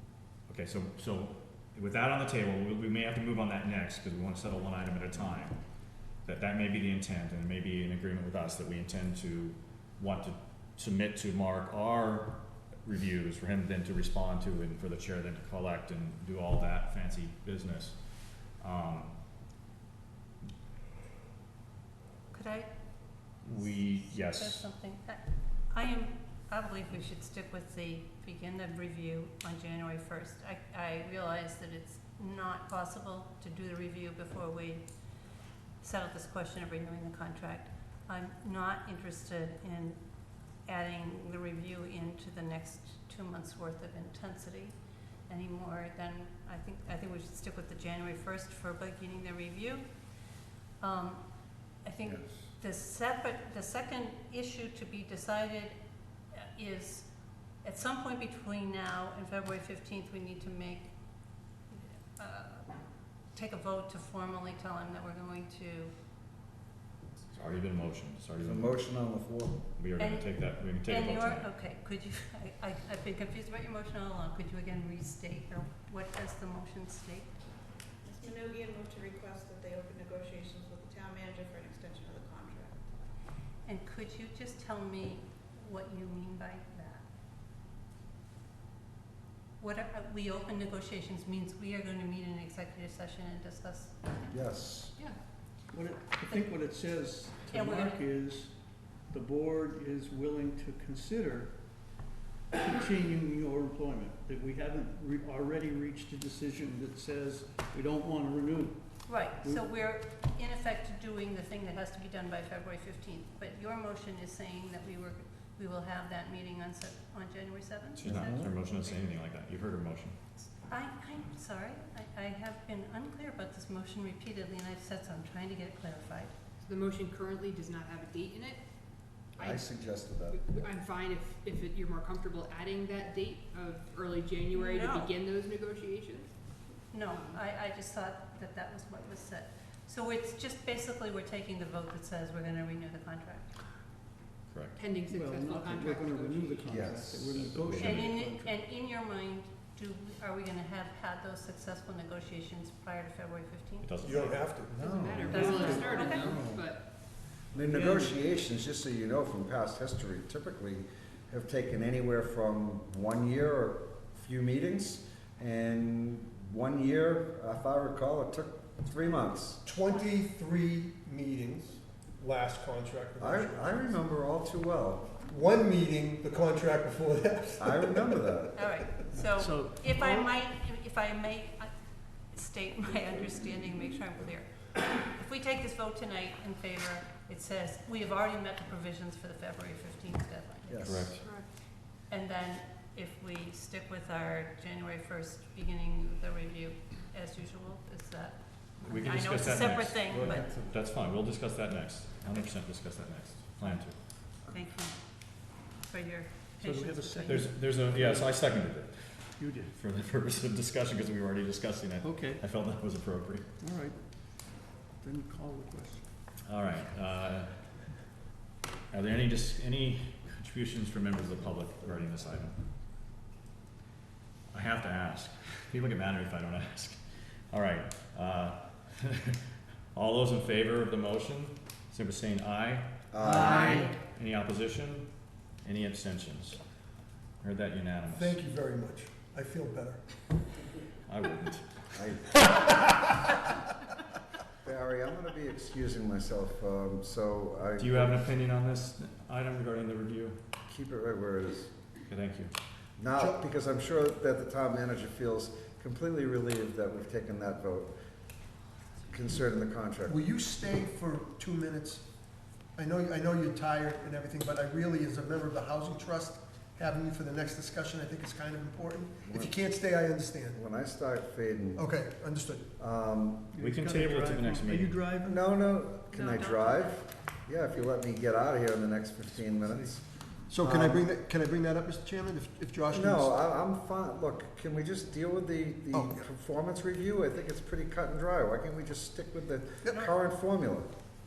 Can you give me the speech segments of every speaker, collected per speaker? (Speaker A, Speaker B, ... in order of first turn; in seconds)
Speaker A: 0.5-5.6, 6.2-19.1, 23.4-24.7, 67.3-68.9, 69.8-71.5, 118.0-120.2, 144.5-144.8, 147.6-148.1, 153.8-154.5, 190.8-191.3, 198.8-204.0, 207.2-213.5, 216.4-217.5, 218.9-222.6, 224.5-236.6, 237.4-238.4, 241.1-241.8, 247.8-250.4, 252.1-252.5, 273.6-275.0
Speaker B: 22.3-34.9, 35.8-40.0, 40.6-44.8, 45.3-49.9, 50.8-55.8, 56.3-65.9, 70.0-77.6, 83.7-87.0, 89.6-94.4, 97.5-98.0, 109.1-118.9, 120.6-126.3, 136.9-143.7, 147.7-154.0, 155.2-156.6, 178.6-190.8, 192.1-200.5, 202.3-202.6, 204.4-207.4
Speaker C: 68.4-69.6, 94.3-94.9, 118.0-118.5, 129.4-130.4, 146.7-147.7, 154.7-156.7, 157.5-169.6, 173.2-175.2, 177.6-178.6, 190.7-191.2, 233.1-233.9, 241.9-242.4, 244.6-248.2, 250.7-251.7, 253.0-257.9, 259.1-260.2, 269.2-269.6, 270.5-271.9, 272.8-273.5, 275.2-280.1, 280.6-281.1, 282.9-290.9
Speaker D: 78.0-82.9, 134.5-135.1
Speaker E: 95.7-98.5, 99.1-101.5, 102.5-109.6, 145.1-148.6, 157.7-158.1, 179.2-180.3, 200.2-200.7, 206.6-208.4, 209.4-209.7, 212.0-212.4, 213.6-216.1, 233.3-233.8, 273.5-275.4
Speaker F: 126.6-137.4, 144.8-146.8, 154.8-156.9, 191.1-191.5
Speaker G: 154.0-154.9, 169.7-174.0, 175.2-179.2, 238.1-240.0, 260.1-262.1, 262.8-270.6, 271.8-272.7, 280.5-283.4, 285.9-286.2